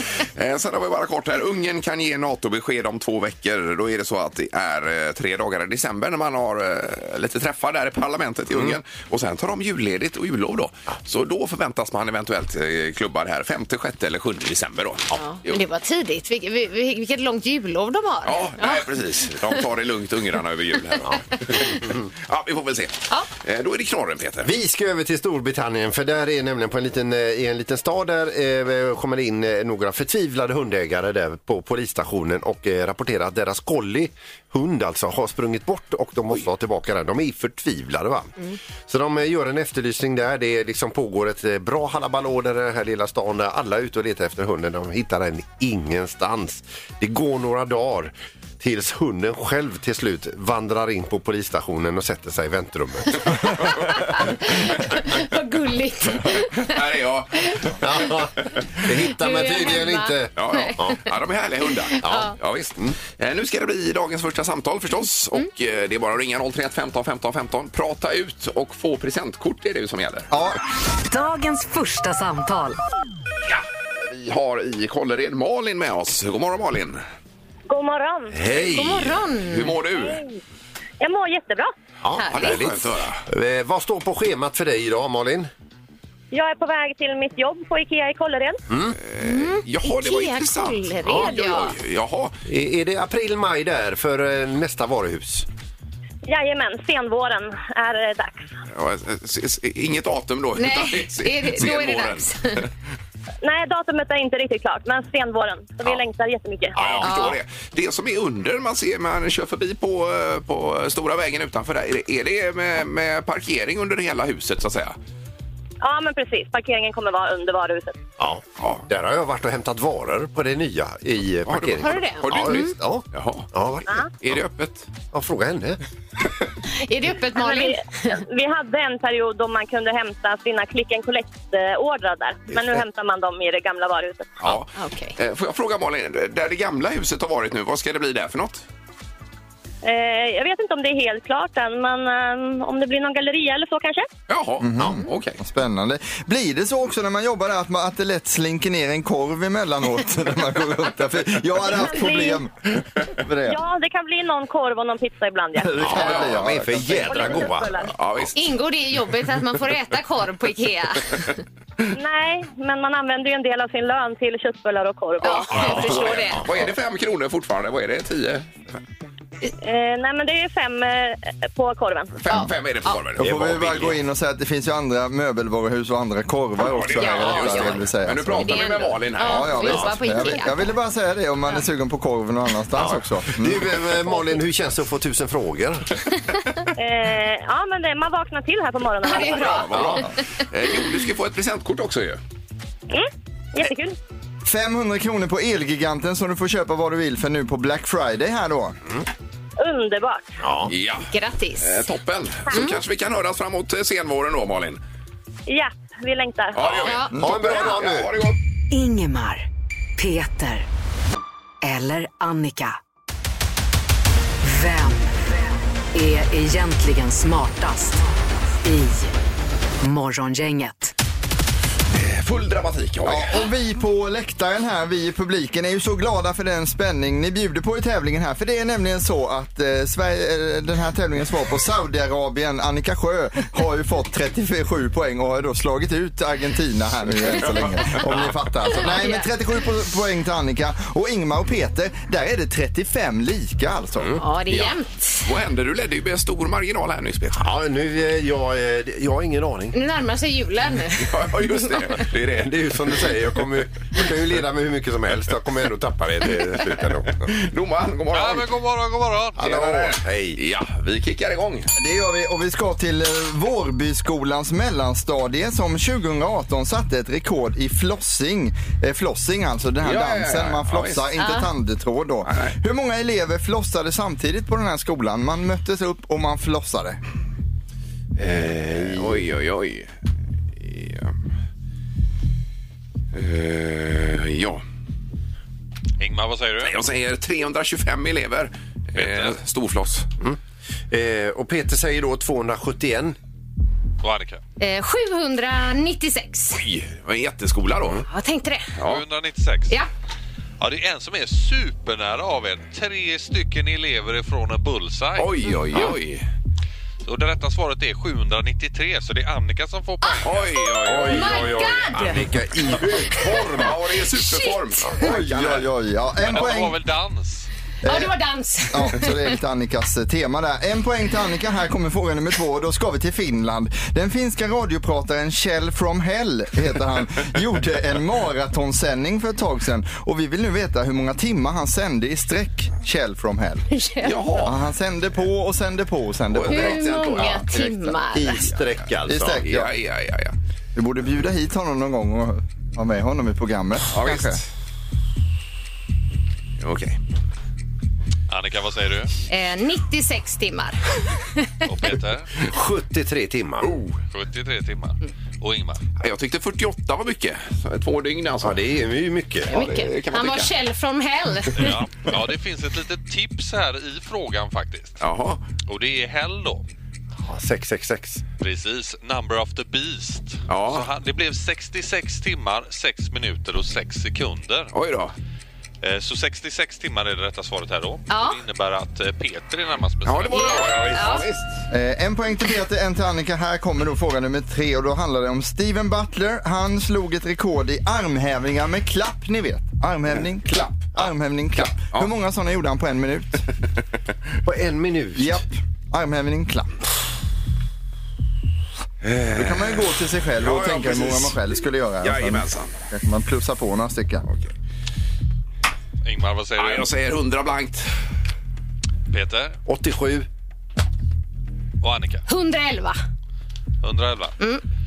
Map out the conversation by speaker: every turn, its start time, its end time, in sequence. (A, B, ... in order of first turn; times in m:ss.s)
0:00.4-0:15.6 A
0:15.2-0:19.6 B
0:18.2-0:24.5 A
0:21.0-0:22.0 C
0:24.4-0:54.2 C
0:53.8-0:56.8 B
0:56.4-0:58.1 A
0:57.8-1:01.0 C
0:59.2-1:01.0 B
1:00.4-1:10.3 A
1:01.9-1:02.3 B
1:02.0-1:03.0 C
1:10.3-1:10.6 D
1:11.0-1:12.8 E
1:13.5-1:17.0 A
1:17.7-1:18.4 F
1:18.3-1:19.2 C
1:18.5-1:20.2 A
1:18.7-1:19.7 B
1:20.0-1:20.3 F
1:21.0-1:21.7 F
1:22.0-1:25.5 C
1:22.2-1:22.6 B
1:22.2-1:23.2 A
1:26.3-1:28.6 F
1:28.7-1:29.0 C
1:29.0-1:32.4 A
1:29.2-1:31.8 B
1:31.0-1:31.3 C
1:32.5-1:35.5 C
1:36.3-1:38.4 F
1:38.7-1:42.7 A
1:40.6-1:42.6 B
1:43.4-1:46.8 F
1:46.8-1:55.0 A
1:46.8-1:47.2 C
1:47.0-1:47.4 B
1:55.8-1:58.0 F
1:58.2-2:03.9 C
1:58.6-1:58.9 A
2:01.5-2:03.5 A
2:01.8-2:02.8 B
2:03.9-2:04.1 F
2:04.2-2:04.9 A
2:05.1-2:05.8 C
2:06.8-2:08.2 B
2:07.4-2:14.4 F
2:12.5-2:12.8 C
2:14.4-2:18.6 A
2:14.8-2:15.2 B
2:19.8-2:24.1 F
2:24.3-2:25.4 A
2:24.6-2:33.6 D
2:31.7-2:32.4 F
2:33.5-2:35.8 F
2:35.6-2:37.5 D
2:35.8-2:38.3 C
2:35.9-2:37.2 A
2:37.0-2:38.0 F
2:37.8-2:38.4 A
2:38.4-2:41.3 B
2:41.9-2:45.7 F
2:45.2-2:46.4 B
2:45.5-2:48.5 A
2:45.7-2:46.5 C
2:49.6-2:52.2 F
2:52.2-2:54.0 A
2:53.2-2:58.6 D
2:56.6-2:59.9 A
2:57.0-2:57.8 B
2:58.4-3:00.7 B
2:59.2-3:03.7 D
3:02.8-3:03.1 A
3:03.4-3:05.9 C
3:06.8-3:09.9 F
3:09.0-3:10.1 B
3:09.2-3:12.2 A
3:12.9-3:14.0 F
3:14.4-3:18.8 D
3:19.6-3:20.4 F
3:20.4-3:20.7 C
3:20.7-3:24.8 A
3:21.1-3:21.8 B
3:22.5-3:22.8 B
3:25.5-3:27.0 F
3:26.6-3:28.4 A
3:26.8-3:27.2 B
3:27.2-3:28.2 C
3:28.7-3:29.5 E
3:30.0-3:30.7 E
3:31.6-3:32.8 E
3:34.4-3:35.2 E
3:35.9-3:38.0 E
3:38.6-3:39.1 E
3:39.8-3:40.9 E
3:41.9-3:43.4 A
3:43.0-4:04.2 D
3:58.7-3:59.3 B
4:04.2-4:05.2 B
4:04.5-4:07.4 A
4:07.4-4:09.8 C
4:09.7-4:11.9 B
4:11.0-4:13.1 A
4:12.3-4:17.4 C
4:17.3-4:18.5 A
4:18.1-4:19.4 G
4:19.4-4:20.4 C
4:19.4-4:21.7 A
4:21.7-4:37.0 D
4:29.8-4:31.1 A
4:31.2-4:31.5 B
4:32.3-4:32.6 A
4:38.2-4:39.9 A
4:40.6-4:41.2 A
4:43.1-4:44.6 A
4:46.0-4:46.8 G
4:46.6-4:50.1 A
4:49.0-4:49.4 G
4:50.9-4:53.2 C
4:54.0-4:54.4 G
4:54.6-4:56.6 B
4:56.6-4:58.0 A
4:58.1-4:58.7 B
4:58.8-4:59.1 A
4:58.8-4:59.8 G
5:00.6-5:05.9 G
5:05.2-5:06.2 A
5:07.0-5:10.3 G
5:10.0-5:12.2 B
5:10.2-5:11.8 A
5:10.8-5:13.7 C
5:13.0-5:15.7 A
5:14.2-5:15.0 B
5:15.0-5:16.8 D
5:16.3-5:17.5 G
5:17.8-5:18.1 D
5:17.9-5:19.2 B
5:18.7-5:33.6 D
5:33.7-5:34.5 B
5:34.0-5:34.6 A
5:34.4-5:36.9 D
5:36.3-5:37.5 A
5:36.5-5:38.5 B
5:36.9-5:39.4 C
5:39.1-5:39.7 D
5:39.4-5:40.4 A
5:40.8-5:44.4 D
5:43.9-5:44.4 A
5:46.6-5:47.0 A
5:48.3-5:49.1 G
5:49.3-5:51.5 B
5:51.7-5:52.3 G
5:52.4-5:53.7 C
5:54.1-5:55.8 G
5:56.0-5:58.6 A
5:58.4-5:59.5 C
5:59.5-6:00.5 A
5:59.5-6:01.7 B
6:01.6-6:05.0 G
6:05.0-6:05.4 A
6:05.7-6:06.7 G
6:07.2-6:08.2 C
6:08.4-6:14.7 G
6:10.5-6:10.9 A
6:14.7-6:15.1 A
6:15.8-6:21.1 G
6:18.1-6:18.4 B
6:20.0-6:21.5 A
6:20.3-6:21.2 B
6:21.7-6:33.4 D
6:31.6-6:32.1 A
6:34.4-6:35.4 C
6:35.2-6:36.7 D
6:39.0-6:41.4 A
6:39.3-6:44.2 D
6:42.0-6:42.8 A
6:46.0-6:46.9 G
6:46.6-6:47.9 A
6:49.1-6:49.6 G
6:49.7-6:50.3 C
6:51.8-6:52.2 G
6:52.3-6:53.0 B
6:53.8-6:54.4 G